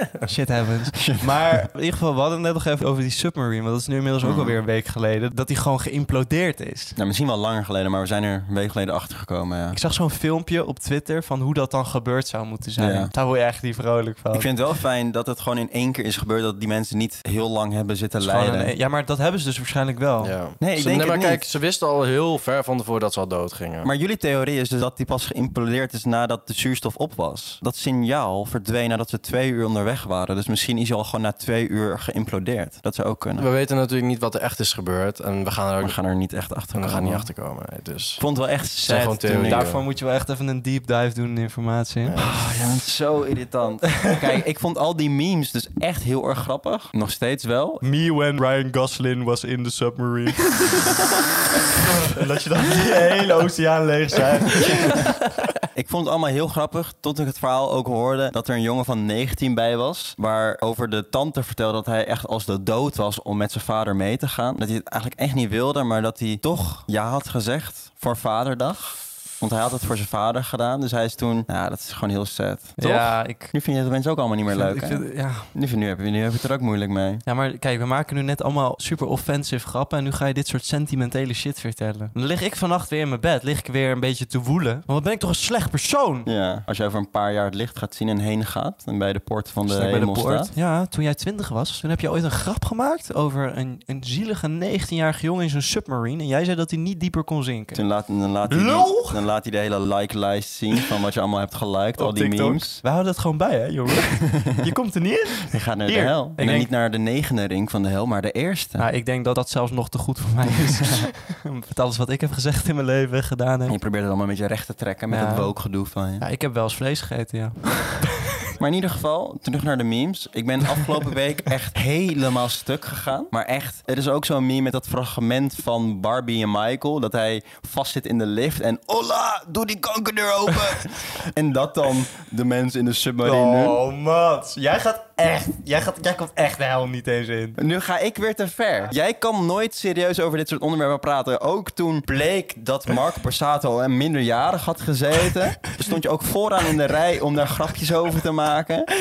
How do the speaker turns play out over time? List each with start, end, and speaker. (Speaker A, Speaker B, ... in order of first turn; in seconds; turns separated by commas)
Speaker A: 0.2-7.0, Speaker B: 0.9-1.6, Speaker B: 4.2-4.6, Speaker B: 7.0-9.8, Speaker A: 9.7-14.5, Speaker B: 12.8-13.1, Speaker B: 14.3-18.7, Speaker A: 18.2-20.4, Speaker C: 20.2-23.9, Speaker B: 20.6-21.5, Speaker B: 23.8-33.5, Speaker C: 33.4-36.0, Speaker B: 35.8-37.3, Speaker C: 36.7-38.2, Speaker B: 38.2-39.7, Speaker C: 38.8-39.8, Speaker A: 39.3-42.1, Speaker C: 42.1-42.3, Speaker B: 42.1-47.8, Speaker A: 47.8-50.9, Speaker A: 52.0-55.1, Speaker B: 55.7-77.2, Speaker A: 72.8-73.5, Speaker A: 74.5-75.5, Speaker A: 77.2-86.3, Speaker B: 86.2-90.5, Speaker A: 89.6-97.8, Speaker B: 97.7-102.8, Speaker A: 98.5-99.2, Speaker A: 102.0-106.7, Speaker B: 105.5-108.8, Speaker A: 108.8-113.8, Speaker B: 113.7-116.2, Speaker A: 115.1-115.5, Speaker A: 116.2-118.3, Speaker B: 118.6-133.8, Speaker A: 133.2-137.6, Speaker B: 137.6-148.9